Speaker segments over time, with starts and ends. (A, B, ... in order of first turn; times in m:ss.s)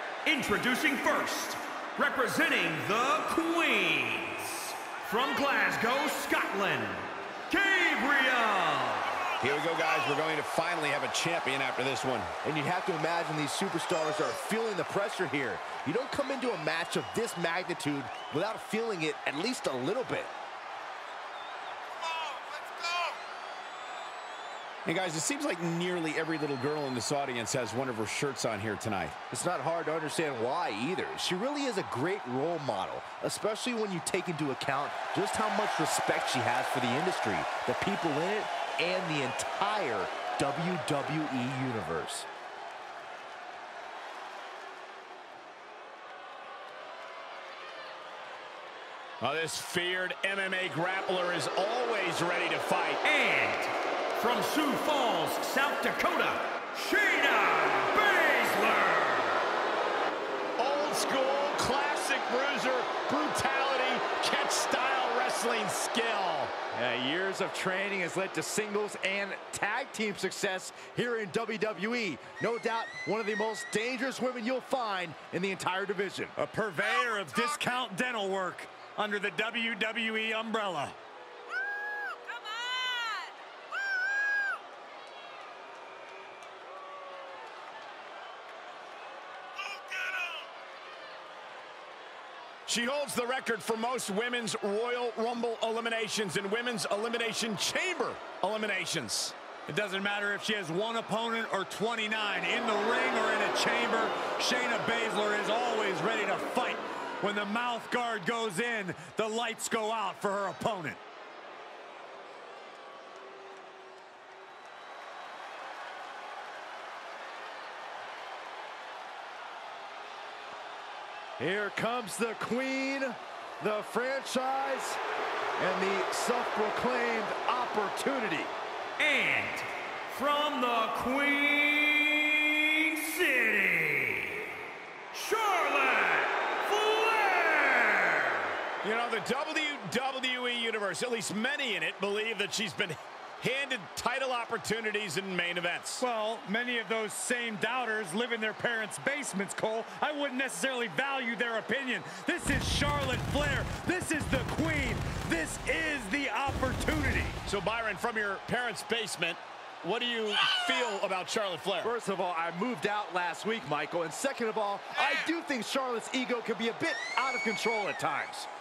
0:00.2-0:07.1 A
0:07.5-0:09.2 B
0:09.4-0:12.4 C
0:12.4-0:20.3 D
0:24.9-0:29.2 C
0:29.3-0:42.3 D
0:49.2-0:53.0 C
0:53.0-0:57.1 A
0:56.6-0:59.5 B
1:00.6-1:06.5 C
1:06.7-1:16.4 D
1:16.4-1:21.0 B
1:32.7-1:39.4 C
1:39.7-1:51.0 B
2:01.4-2:05.0 D
2:05.6-2:08.5 D
2:09.0-2:14.5 B
2:15.1-2:18.5 B
2:18.8-2:26.0 C
2:26.0-2:37.4 B
2:37.4-2:41.9 C
2:41.8-2:48.5 D